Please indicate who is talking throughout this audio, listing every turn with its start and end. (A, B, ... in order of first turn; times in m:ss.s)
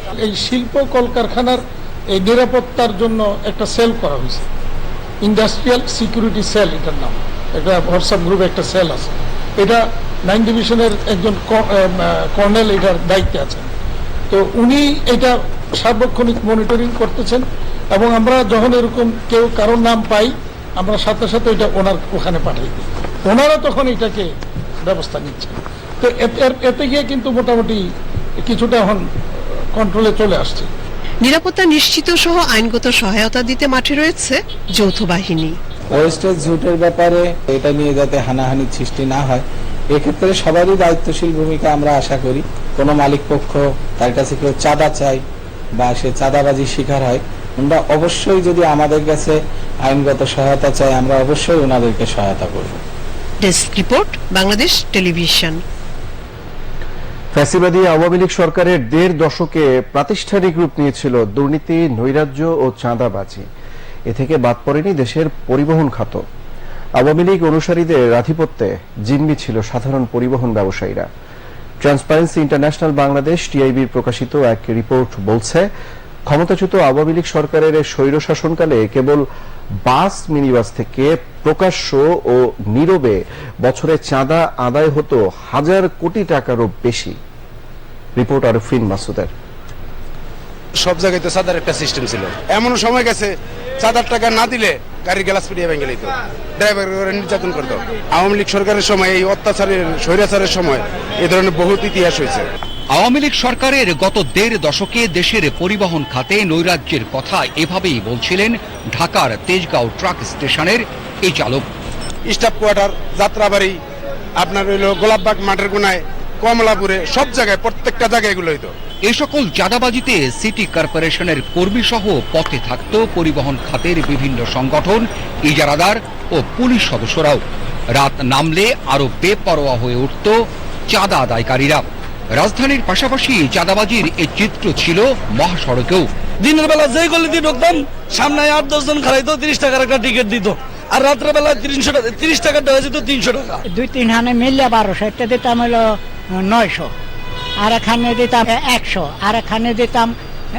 0:00.2-0:01.6 A
0:02.1-0:04.4 A
0:05.2-0:13.7 A
0:14.3-0:24.3 A
0:24.8-0:27.8 A
0:28.4-0:29.1 A
0:29.7-0:30.7 A
0:31.2-0:35.6 B
0:35.9-0:45.2 C
0:45.8-0:52.8 C
0:53.4-0:55.6 B
0:57.4-1:03.5 D
1:04.1-1:06.2 D
1:07.0-1:11.1 D
1:11.8-1:15.7 D
1:16.3-1:19.2 D
1:19.9-1:27.2 D
1:28.2-1:29.3 D
1:30.8-1:42.5 E
1:42.9-1:51.7 F
1:52.3-1:53.8 E
1:54.4-1:58.7 E
1:59.1-2:16.1 F
2:16.4-2:23.6 G
2:23.7-2:25.8 H
2:26.4-2:26.9 H
2:27.7-2:30.1 H